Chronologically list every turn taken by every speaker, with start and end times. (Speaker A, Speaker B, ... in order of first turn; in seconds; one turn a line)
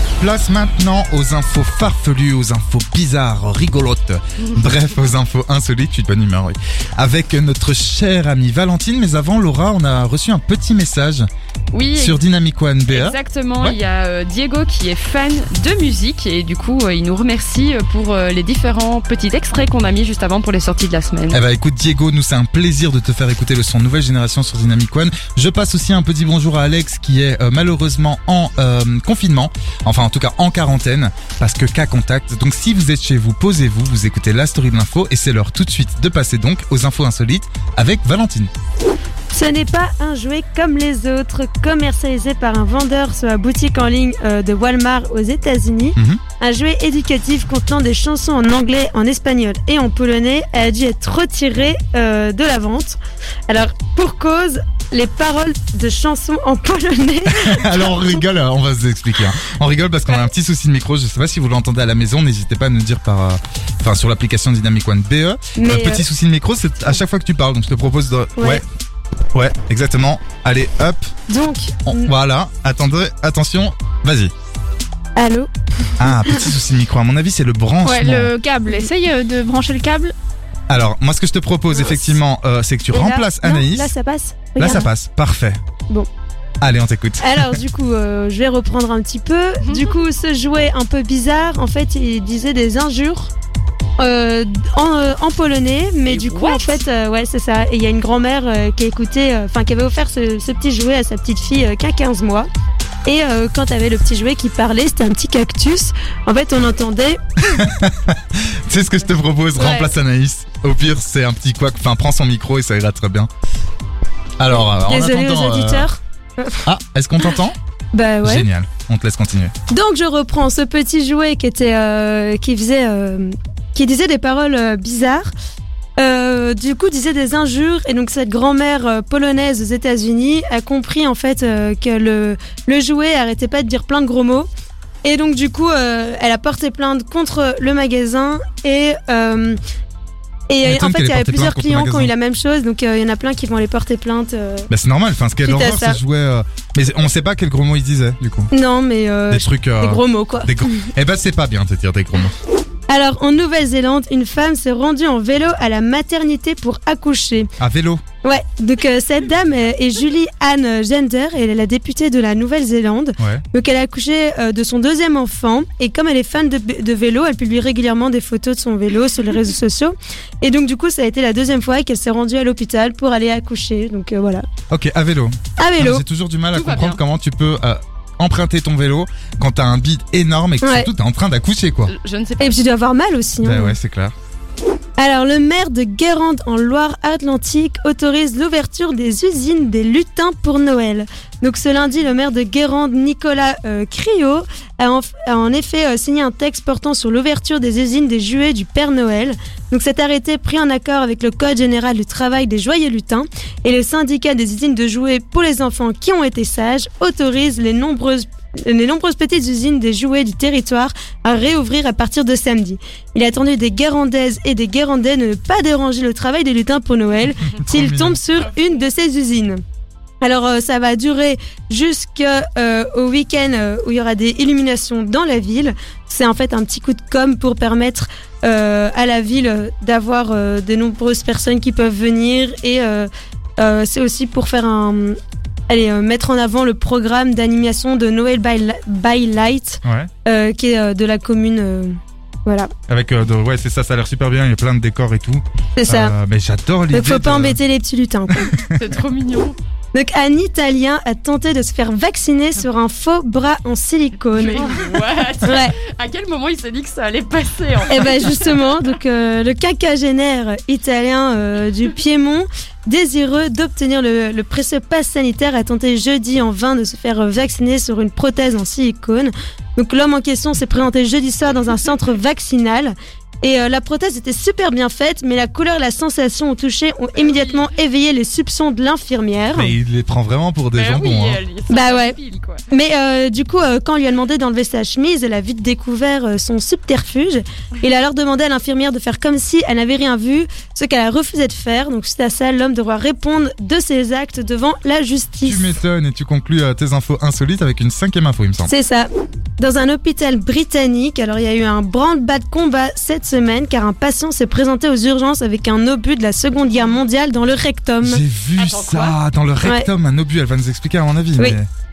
Speaker A: 0.2-11.2
Speaker B: 4.4-4.7
Speaker B: 11.7-12.2
Speaker A: 11.9-13.8
Speaker B: 12.9-21.4
Speaker A: 21.3-38.5
Speaker C: 39.3-53.0
Speaker C: 53.5-58.0
Speaker A: 57.4-68.6
Speaker C: 65.6-66.0
Speaker A: 69.3-71.1
Speaker C: 71.3-72.1
Speaker A: 71.9-74.3
Speaker C: 75.2-76.4
Speaker A: 76.0-78.3
Speaker D: 77.8-80.1
Speaker A: 80.7-83.9
Speaker C: 81.7-82.2
Speaker C: 82.9-84.9
Speaker A: 84.6-85.6
Speaker A: 86.6-87.6
Speaker C: 87.2-93.3
Speaker B: 89.6-90.0
Speaker C: 94.0-102.5
Speaker B: 96.1-96.8
Speaker C: 103.0-107.2
Speaker A: 107.5-113.3
Speaker C: 109.5-109.9
Speaker A: 114.4-115.9
Speaker C: 114.5-116.6
Speaker A: 116.7-117.5
Speaker C: 117.9-118.5
Speaker A: 118.2-119.5
Speaker C: 119.7-125.3
Speaker C: 126.0-134.5
Speaker C: 135.0-139.6
Speaker C: 140.5-144.7
Speaker A: 140.6-142.1
Speaker A: 144.7-148.5
Speaker C: 145.4-146.0
Speaker C: 148.5-150.5
Speaker A: 149.3-152.3
Speaker C: 152.9-157.5
Speaker A: 157.6-158.0
Speaker C: 158.2-174.4
Speaker A: 174.7-181.9
Speaker C: 175.6-176.0
Speaker B: 176.5-177.0
Speaker C: 180.6-180.9
Speaker B: 181.9-182.6
Speaker C: 182.4-183.7
Speaker A: 183.4-184.1
Speaker C: 185.0-219.6
Speaker A: 217.5-218.2
Speaker C: 220.2-235.2
Speaker C: 235.7-242.7
Speaker A: 239.8-240.1
Speaker A: 242.9-247.6
Speaker C: 245.8-246.1
Speaker C: 246.9-248.5
Speaker A: 248.3-248.8
Speaker B: 248.7-249.6
Speaker C: 249.9-254.8
Speaker B: 254.3-258.7
Speaker C: 255.4-255.8
Speaker C: 257.9-279.7
Speaker B: 277.1-277.7
Speaker A: 279.5-281.4
Speaker B: 280.7-282.7
Speaker C: 281.7-282.2
Speaker C: 282.7-295.7
Speaker A: 295.4-298.7
Speaker C: 298.6-308.2
Speaker A: 308.0-311.7
Speaker B: 308.6-309.1
Speaker C: 309.6-309.9